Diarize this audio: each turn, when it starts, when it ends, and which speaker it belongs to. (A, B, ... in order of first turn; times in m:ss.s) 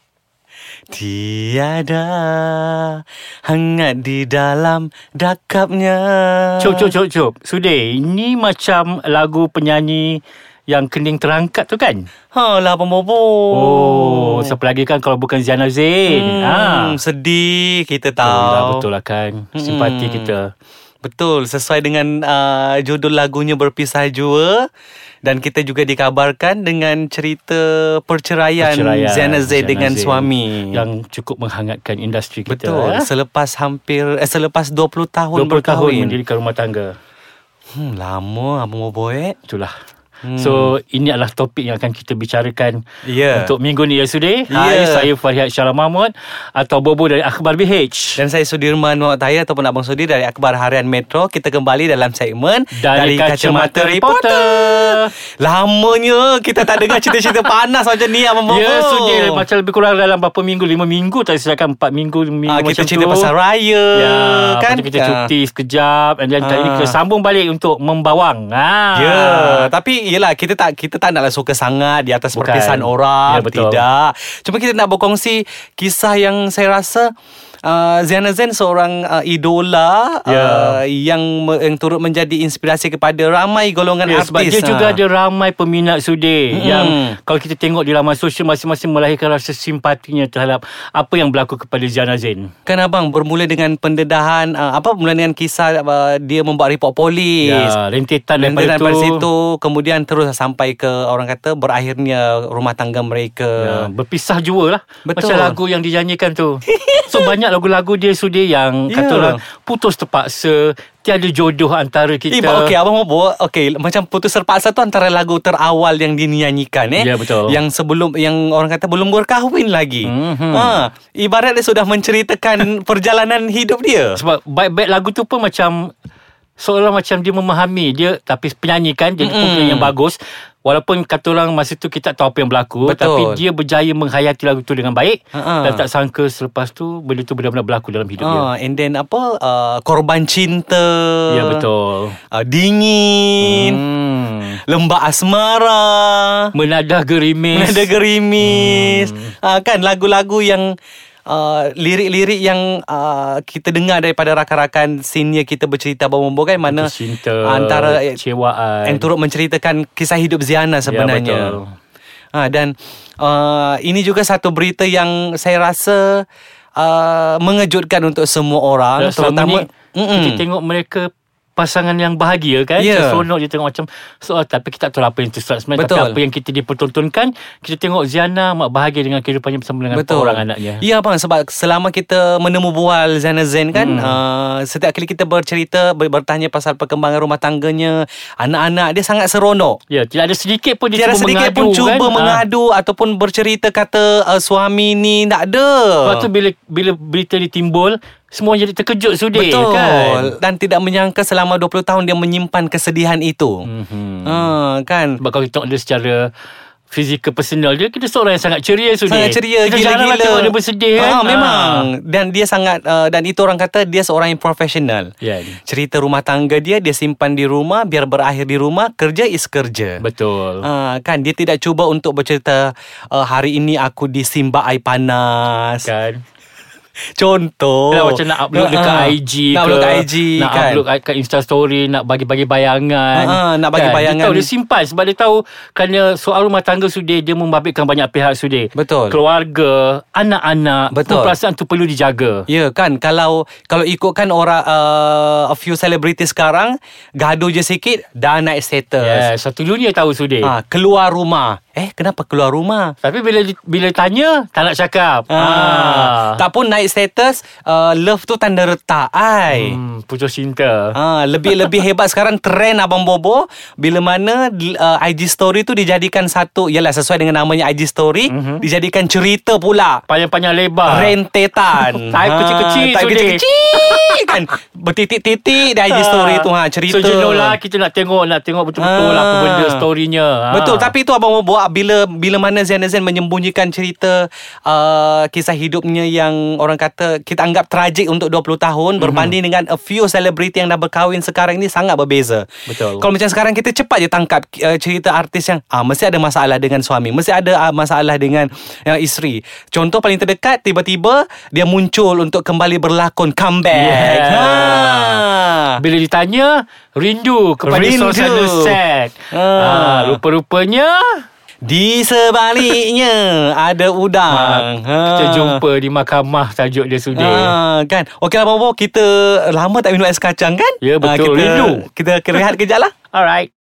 0:00.9-0:06.9 A
0:06.6-0:12.1 B
0:12.3-0:14.5 A
0:13.5-0:17.0 B
0:16.1-0:18.8 A
0:18.2-0:20.5 B
0:19.5-0:20.3 A
0:21.0-0:24.6 A
0:25.2-0:30.8 A
0:28.6-0:33.1 B
0:32.5-0:36.2 A
0:35.3-0:36.9 B
0:37.7-0:39.4 A
0:39.5-0:39.7 B
0:40.2-0:40.7 A
0:40.4-0:48.2 B
0:43.0-0:43.5 A
0:44.5-0:45.1 A
0:48.2-0:59.4 A
0:52.7-0:55.1 B
0:58.5-1:03.3 B
1:02.5-1:05.3 A
1:03.9-1:09.7 B
1:06.4-1:07.0 A
1:08.9-1:17.1 A
1:12.3-1:13.8 B
1:17.6-1:25.0 A
1:20.2-1:20.8 B
1:24.0-1:32.5 B
1:26.5-1:27.2 A
1:32.7-1:37.8 A
1:37.4-1:39.2 B
1:38.4-1:43.9 A
1:43.6-1:52.7 B
1:45.0-1:45.6 A
1:46.7-1:47.3 A
1:48.9-1:49.4 A
1:52.3-2:04.2 A
1:57.0-1:57.6 B
2:00.0-2:00.8 B
2:04.1-2:05.9 B
2:06.6-2:18.5 B
2:09.2-2:09.9 A
2:12.8-2:13.4 A
2:15.3-2:15.8 A
2:18.2-2:21.6 A
2:21.3-2:22.2 B
2:22.3-2:23.8 A
2:23.4-2:24.6 B
2:24.7-2:26.5 A
2:26.5-2:29.3 B
2:27.5-2:30.7 A
2:31.3-2:38.2 A
2:36.6-2:39.1 B
2:38.8-2:41.6 A
2:40.8-2:41.7 B
2:42.3-2:46.2 A
2:46.8-2:50.4 A
2:49.0-3:00.8 B
2:52.8-2:53.2 A
2:55.7-2:56.2 A
2:59.9-3:09.8 A
3:03.7-3:04.2 B
3:09.9-3:12.4 B
3:10.9-3:16.3 A
3:16.0-3:20.3 B
3:19.3-3:23.7 A
3:23.6-3:24.5 B
3:24.2-3:25.2 A
3:25.2-3:26.3 B
3:26.9-3:31.9 B
3:29.1-3:35.1 A
3:35.2-3:35.6 B
3:35.7-3:40.0 A
3:40.0-3:40.6 B
3:40.6-3:45.9 A
3:45.8-3:46.2 B
3:47.2-3:50.8 A
3:47.9-4:02.4 B
3:53.1-3:54.5 A
3:58.7-3:59.2 A
4:00.9-4:01.4 A
4:02.5-4:09.3 A
4:09.0-4:10.5 B
4:10.4-4:12.9 A
4:13.0-4:16.4 B
4:15.3-4:19.8 A
4:19.5-4:21.0 B
4:20.9-4:30.0 A
4:21.5-4:21.8 B
4:28.3-4:28.6 B
4:30.1-4:31.1 B
4:30.8-4:37.6 A
4:31.7-4:34.4 B
4:35.9-4:40.9 B
4:38.8-4:39.8 A
4:40.5-5:05.8 A
4:49.0-4:49.4 B
4:52.7-4:53.1 B
5:03.7-5:11.2 B
5:07.6-5:08.8 A
5:09.3-5:10.2 A
5:11.6-5:15.6 A
5:14.3-5:17.6 B
5:17.1-5:22.9 A
5:20.8-5:22.5 B
5:23.1-5:23.5 B